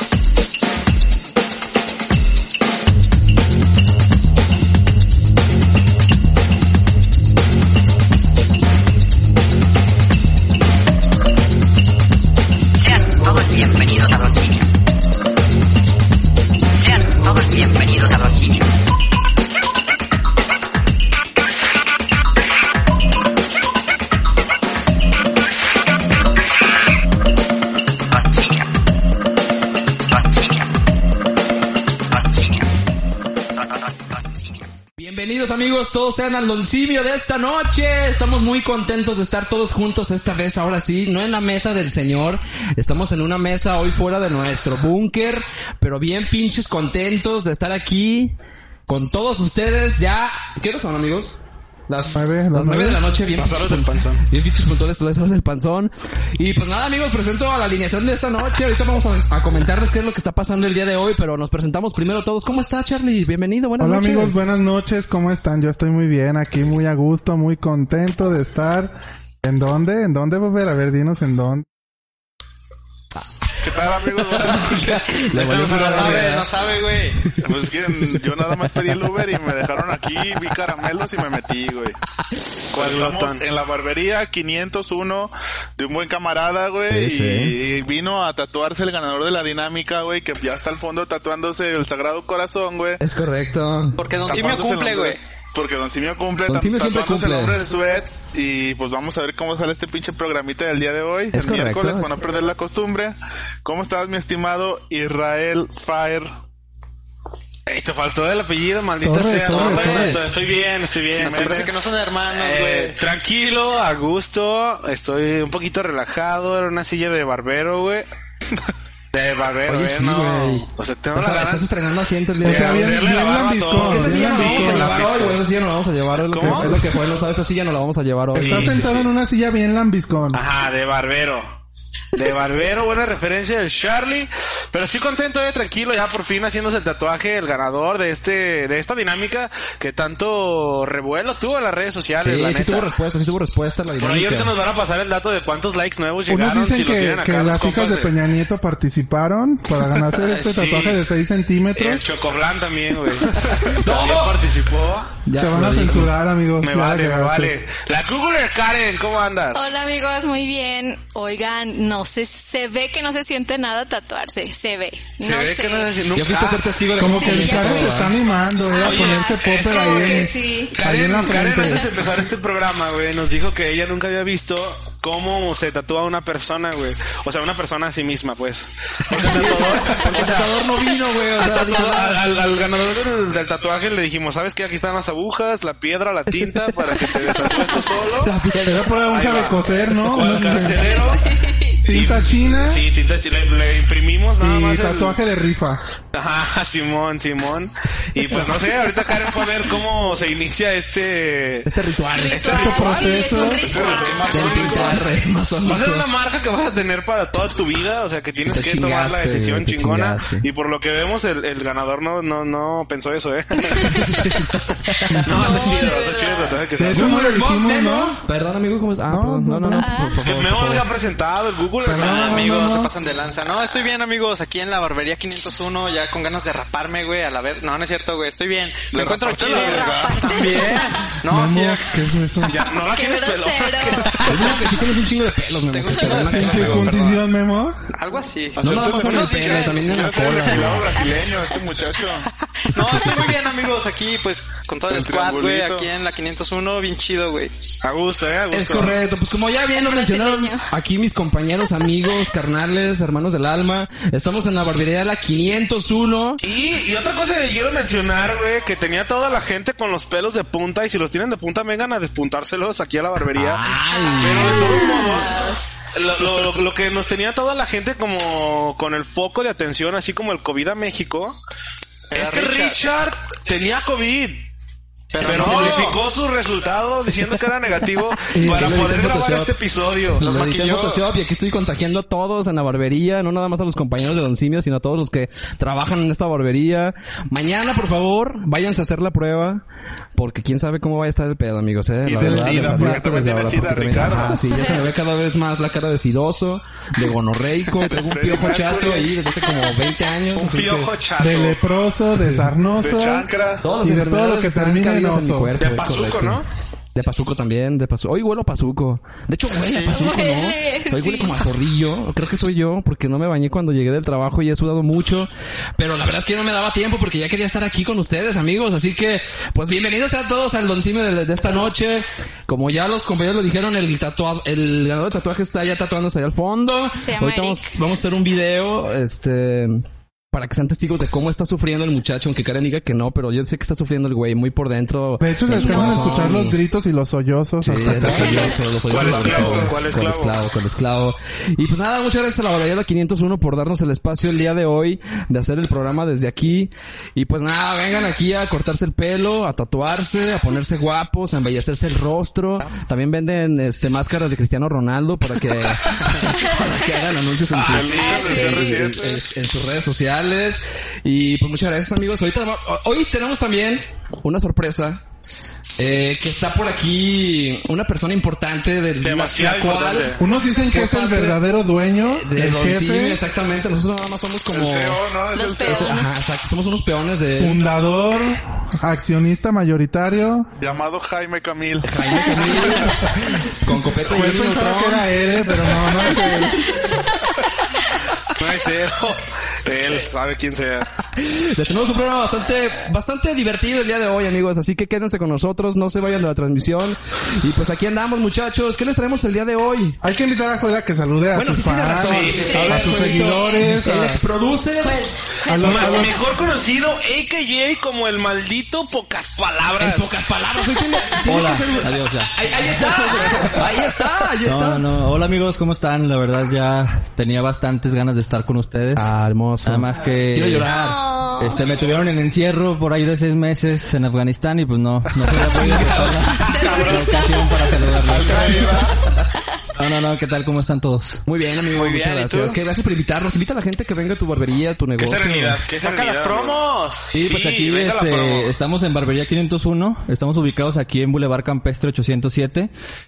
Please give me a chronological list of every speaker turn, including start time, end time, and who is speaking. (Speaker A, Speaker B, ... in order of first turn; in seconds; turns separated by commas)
Speaker A: 12.7-14.7, Speaker A: 16.7-18.7, Speaker A: 28.1-28.7, Speaker A: 30.1-30.7, Speaker A: 32.1-32.7, Speaker A: 33.5-34.7, Speaker B: 35.0-48.4, Speaker B: 48.9-51.4, Speaker B: 51.9-64.4, Speaker C: 52.1-53.0, Speaker D: 53.4-54.2, Speaker C: 63.8-71.7, Speaker E: 73.6-75.0, Speaker B: 74.6-76.5, Speaker F: 74.6-77.2, Speaker E: 77.4-82.0, Speaker D: 82.7-83.4, Speaker E: 82.7-93.0, Speaker G: 86.9-87.5, Speaker B: 93.0-94.0, Speaker F: 94.0-95.2, Speaker E: 94.2-106.3, Speaker B: 96.5-97.6, Speaker B: 101.3-102.1, Speaker D: 107.7-111.7, Speaker C: 109.0-110.2, Speaker F: 109.5-110.1, Speaker F: 111.2-113.0, Speaker E: 111.3-111.6, Speaker D: 112.3-118.1, Speaker D: 119.1-121.7, Speaker B: 119.7-123.0, Speaker C: 122.4-125.0, Speaker D: 122.4-125.4, Speaker B: 123.7-128.8, Speaker D: 126.3-126.8, Speaker C: 126.4-126.9, Speaker D: 128.3-129.1, Speaker C: 128.3-130.5, Speaker D: 130.3-131.5, Speaker D: 132.1-142.9, Speaker B: 142.2-144.5, Speaker D: 144.0-148.1, Speaker C: 146.3-152.1, Speaker D: 150.1-151.0, Speaker D: 151.8-155.1, Speaker B: 153.7-154.3, Speaker B: 155.2-156.1, Speaker C: 155.4-157.6, Speaker D: 156.6-159.7, Speaker H: 159.6-166.0, Speaker D: 165.2-167.2, Speaker B: 166.1-168.2, Speaker C: 167.0-171.8, Speaker H: 167.1-168.1, Speaker H: 168.7-170.8, Speaker D: 168.8-180.6, Speaker B: 179.1-182.2, Speaker D: 181.4-188.3, Speaker H: 187.3-187.8, Speaker B: 188.2-189.0, Speaker C: 188.6-191.1, Speaker D: 189.1-195.2, Speaker B: 190.2-190.6, Speaker H: 190.8-191.8, Speaker C: 191.8-192.8, Speaker C: 194.4-195.8, Speaker D: 196.1-201.7, Speaker B: 201.7-203.1, Speaker H: 202.1-205.0, Speaker D: 202.3-203.1, Speaker C: 202.5-203.7, Speaker E: 203.5-205.1, Speaker B: 204.2-206.1, Speaker D: 205.7-214.4, Speaker B: 208.5-210.4, Speaker H: 213.7-214.1, Speaker B: 214.2-215.8, Speaker C: 215.1-215.5, Speaker D: 215.2-217.2, Speaker H: 215.3-216.6, Speaker C: 216.8-218.2, Speaker B: 216.9-220.9, Speaker C: 219.1-219.9, Speaker H: 219.8-220.2, Speaker D: 220.2-222.5, Speaker C: 221.8-222.9, Speaker F: 221.9-232.0, Speaker E: 228.9-230.4, Speaker H: 229.5-231.1, Speaker C: 231.2-232.6, Speaker D: 232.5-234.4, Speaker H: 232.9-234.2, Speaker B: 234.2-237.1, Speaker F: 235.7-237.2, Speaker C: 236.1-237.8, Speaker F: 237.9-240.7, Speaker B: 238.6-240.9, Speaker E: 238.6-242.3, Speaker F: 242.6-247.5, Speaker E: 244.9-245.9, Speaker D: 247.8-249.0, Speaker B: 248.5-256.4, Speaker H: 249.7-250.7, Speaker D: 256.4-271.4, Speaker B: 263.4-264.9, Speaker H: 263.9-265.6, Speaker F: 272.1-272.8, Speaker D: 272.1-274.5, Speaker F: 275.1-276.0, Speaker D: 275.2-280.3, Speaker B: 278.3-279.5, Speaker B: 280.2-289.6, Speaker F: 280.2-281.1, Speaker B: 290.1-300.9, Speaker E: 292.0-294.5, Speaker C: 292.1-293.6, Speaker H: 294.5-294.8, Speaker E: 297.7-299.2, Speaker D: 300.4-301.7, Speaker C: 301.2-303.3, Speaker E: 302.8-303.7, Speaker B: 303.6-306.4, Speaker C: 303.8-305.5, Speaker D: 305.6-306.4, Speaker B: 306.9-336.6, Speaker F: 309.6-309.9, Speaker H: 309.8-311.4, Speaker H: 326.9-327.8, Speaker C: 335.2-338.6, Speaker H: 335.6-336.3, Speaker B: 337.6-365.0, Speaker D: 338.9-340.4, Speaker E: 338.9-339.8, Speaker D: 357.5-358.7, Speaker E: 357.6-359.2, Speaker H: 358.0-358.7, Speaker B: 365.8-371.4, Speaker D: 369.0-370.2, Speaker C: 370.2-373.2, Speaker B: 372.2-377.6, Speaker E: 374.5-375.9, Speaker H: 375.3-376.1, Speaker C: 377.4-380.5, Speaker E: 380.6-382.8, Speaker B: 381.8-385.9, Speaker H: 382.4-382.9, Speaker C: 384.0-386.8, Speaker H: 386.7-386.9, Speaker D: 388.4-390.9, Speaker B: 391.1-400.0, Speaker C: 400.0-404.2, Speaker B: 401.3-405.0, Speaker D: 402.1-402.6, Speaker H: 402.4-403.7, Speaker H: 404.8-406.3, Speaker C: 405.5-406.2, Speaker D: 405.6-410.1, Speaker B: 409.8-414.9, Speaker G: 411.2-413.6, Speaker G: 414.4-420.7, Speaker B: 418.9-421.1, Speaker H: 420.7-421.6, Speaker G: 421.4-428.8, Speaker B: 425.4-426.3, Speaker D: 426.2-426.9, Speaker H: 426.5-427.5, Speaker E: 428.1-429.0, Speaker G: 429.8-431.2, Speaker B: 431.2-435.6, Speaker F: 431.7-432.6, Speaker D: 435.0-438.5, Speaker F: 435.6-437.1, Speaker G: 437.1-442.7